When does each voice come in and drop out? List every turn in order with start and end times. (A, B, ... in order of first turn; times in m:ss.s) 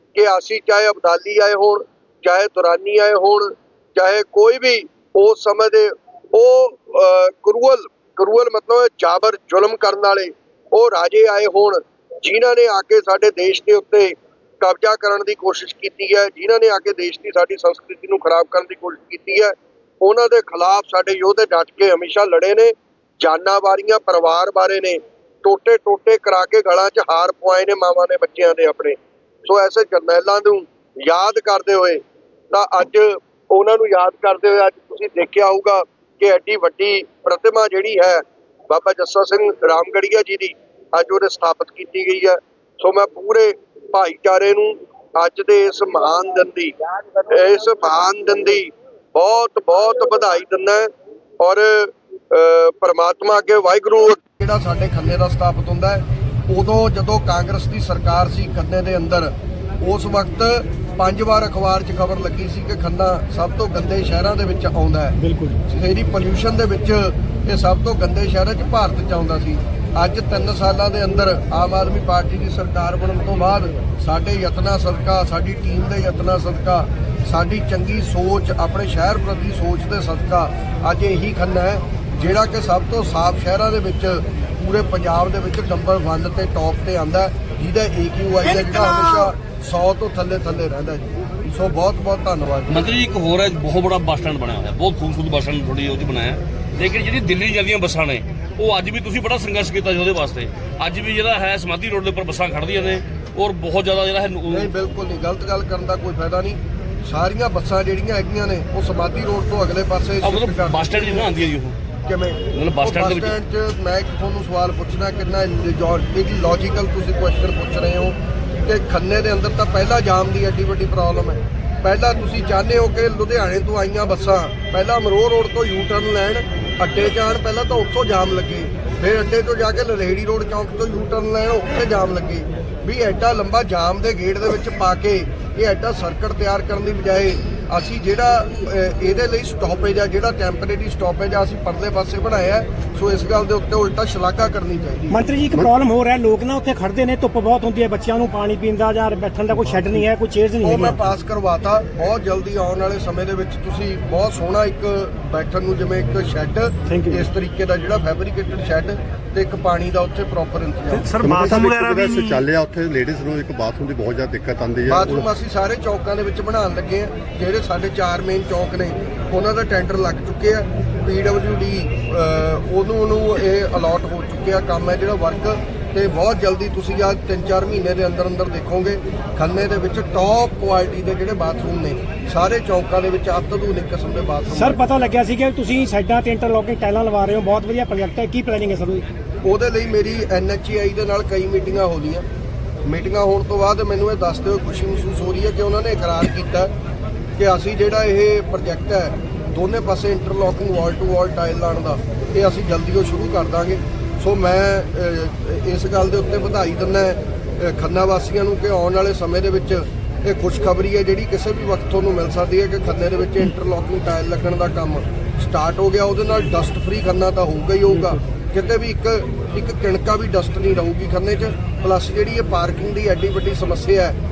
0:00.2-1:32.9 A
1:32.7-1:44.7 B
1:44.5-1:51.3 A
1:50.2-1:51.8 B
1:52.0-2:25.2 A
1:52.5-1:53.3 B
2:25.1-2:31.0 C
2:30.6-2:41.1 A
2:36.9-2:37.2 C
2:40.9-2:42.4 C
2:41.2-2:45.3 D
2:44.9-3:04.8 A
3:04.6-3:09.0 C
3:09.4-3:12.2 A
3:12.9-3:16.7 A
3:17.4-3:44.2 A